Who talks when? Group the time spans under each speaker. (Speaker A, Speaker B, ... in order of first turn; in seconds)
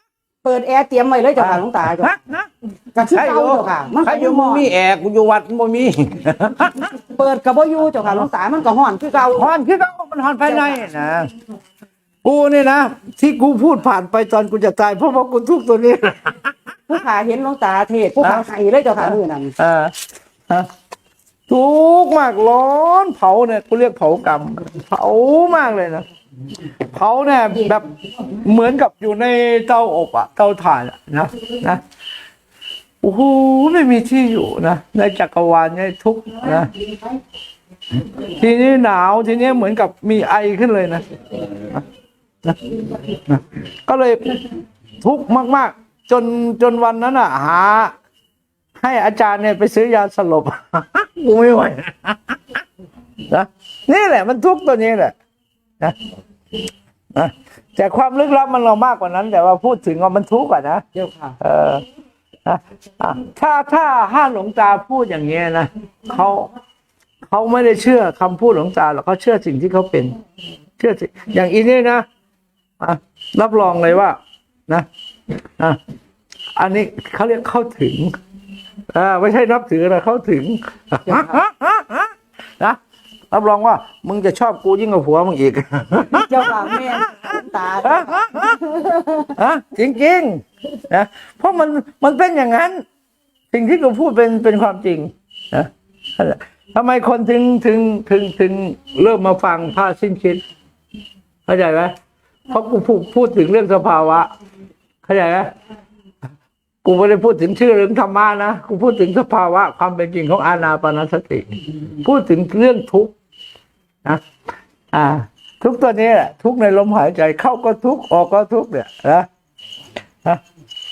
Speaker A: 0.4-2.1, 2.9-4.7, 7.0-9.5, 10.4-10.9, 16.9-19.5, 36.7-37.0, 60.9-61.4, 81.1-81.4, 86.1-89.3
Speaker B: 1.4-2.5, 3.0-6.9, 9.3-11.3, 12.2-16.5, 19.1-20.7, 21.5-26.1, 26.9-31.8, 33.0-36.7, 38.2-41.0, 41.6-41.8, 42.4-48.0, 48.8-52.6, 53.3-55.1, 57.1-60.8, 61.4-61.9, 62.5-66.5, 67.2-70.2, 70.8-72.1, 72.8-74.2, 76.5-78.2, 78.9-82.1, 83.3-87.2, 87.8-88.5, 89.3-92.8, 93.5-100.4, 101.5-102.0, 102.5-104.3, 105.0-105.5, 106.8-111.5, 112.0-113.1, 114.9-119.3